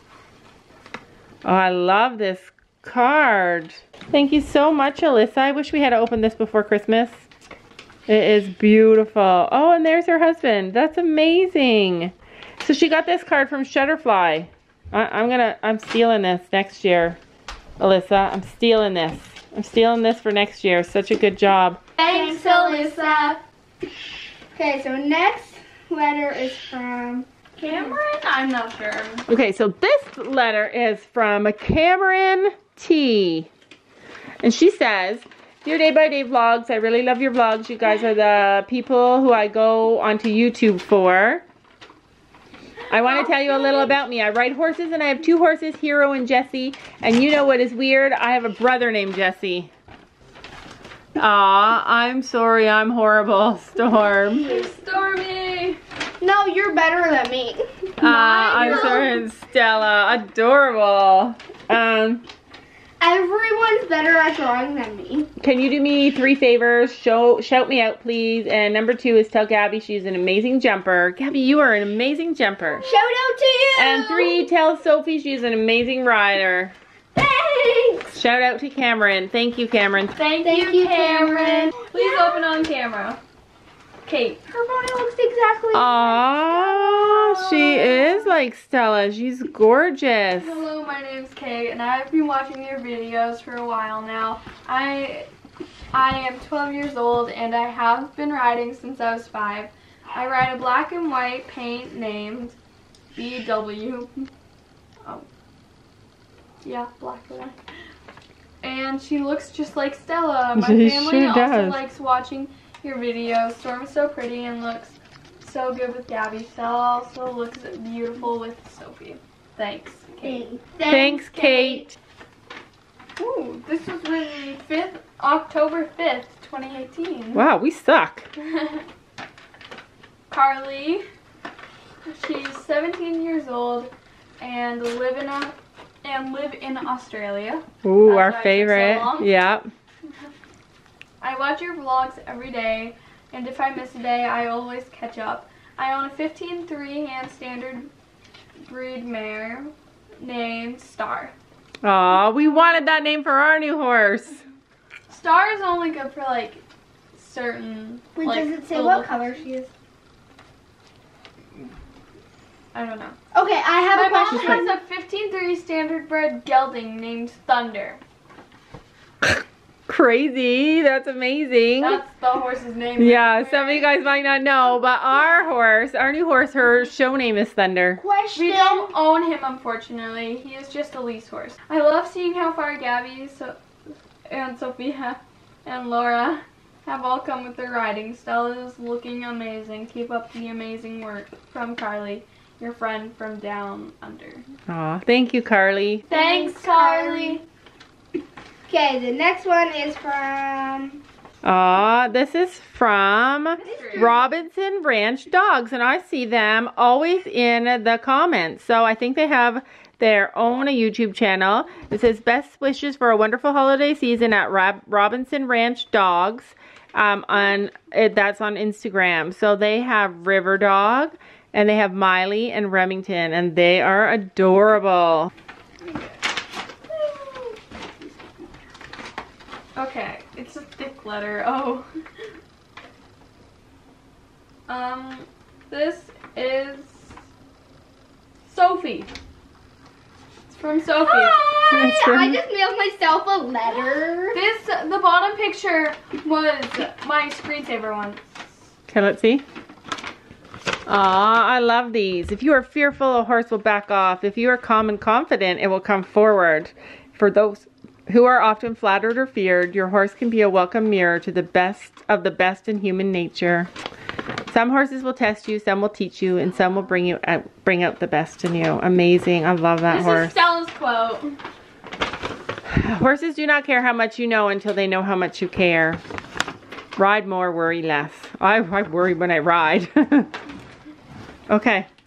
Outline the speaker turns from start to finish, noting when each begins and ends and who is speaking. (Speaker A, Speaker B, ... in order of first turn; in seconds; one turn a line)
Speaker A: 1.4-7.3
Speaker A: 8.1-17.2
Speaker A: 17.8-21.8
Speaker B: 22.0-23.4
Speaker C: 22.0-23.3
Speaker C: 24.5-28.0
Speaker B: 27.6-29.3
Speaker A: 29.3-33.5
Speaker A: 34.4-41.4
Speaker A: 42.9-49.7
Speaker B: 43.0-43.9
Speaker A: 51.1-54.6
Speaker B: 54.4-55.8
Speaker C: 56.2-57.6
Speaker B: 58.0-59.2
Speaker A: 58.0-62.2
Speaker C: 58.5-59.1
Speaker C: 63.0-65.3
Speaker A: 65.4-72.8
Speaker B: 72.8-73.2
Speaker C: 72.8-74.5
Speaker A: 73.7-76.7
Speaker C: 77.1-78.2
Speaker A: 78.1-80.2
Speaker B: 80.1-83.2
Speaker C: 80.4-82.3
Speaker B: 84.0-84.4
Speaker C: 84.5-88.2
Speaker A: 85.7-90.6
Speaker B: 90.4-95.3
Speaker B: 95.9-102.6
Speaker B: 103.1-104.3
Speaker B: 106.6-107.6
Speaker B: 108.6-120.4
Speaker A: 110.5-111.8
Speaker C: 120.2-121.8
Speaker A: 120.9-121.9
Speaker B: 123.2-127.4
Speaker A: 127.3-128.2
Speaker B: 128.4-128.8
Speaker B: 130.3-131.0
Speaker B: 132.1-139.3
Speaker A: 137.8-139.7
Speaker B: 140.0-140.3
Speaker B: 141.2-147.9
Speaker B: 148.7-151.3
Speaker A: 151.8-154.4
Speaker B: 155.1-156.6
Speaker B: 157.1-159.2
Speaker C: 158.2-159.7
Speaker B: 162.7-163.2
Speaker C: 163.3-164.7
Speaker B: 163.9-168.0
Speaker A: 164.3-164.6
Speaker A: 169.2-172.0
Speaker B: 171.8-173.9
Speaker A: 173.0-178.0
Speaker C: 178.0-178.9
Speaker B: 178.3-194.4
Speaker A: 194.7-196.1
Speaker B: 196.1-197.4
Speaker C: 196.1-197.4
Speaker C: 198.7-201.0
Speaker A: 201.4-225.3
Speaker B: 203.6-204.2
Speaker C: 203.6-204.2
Speaker B: 225.8-226.1
Speaker B: 226.9-227.6
Speaker B: 229.8-231.9
Speaker B: 234.7-237.1
Speaker B: 238.5-239.1
Speaker B: 240.5-241.4
Speaker C: 241.0-244.4
Speaker A: 241.7-242.4
Speaker B: 244.3-248.2
Speaker A: 248.9-249.4
Speaker A: 250.9-263.7
Speaker A: 264.5-270.4
Speaker B: 269.9-271.4
Speaker A: 272.7-276.0
Speaker A: 277.0-280.3
Speaker A: 281.5-281.9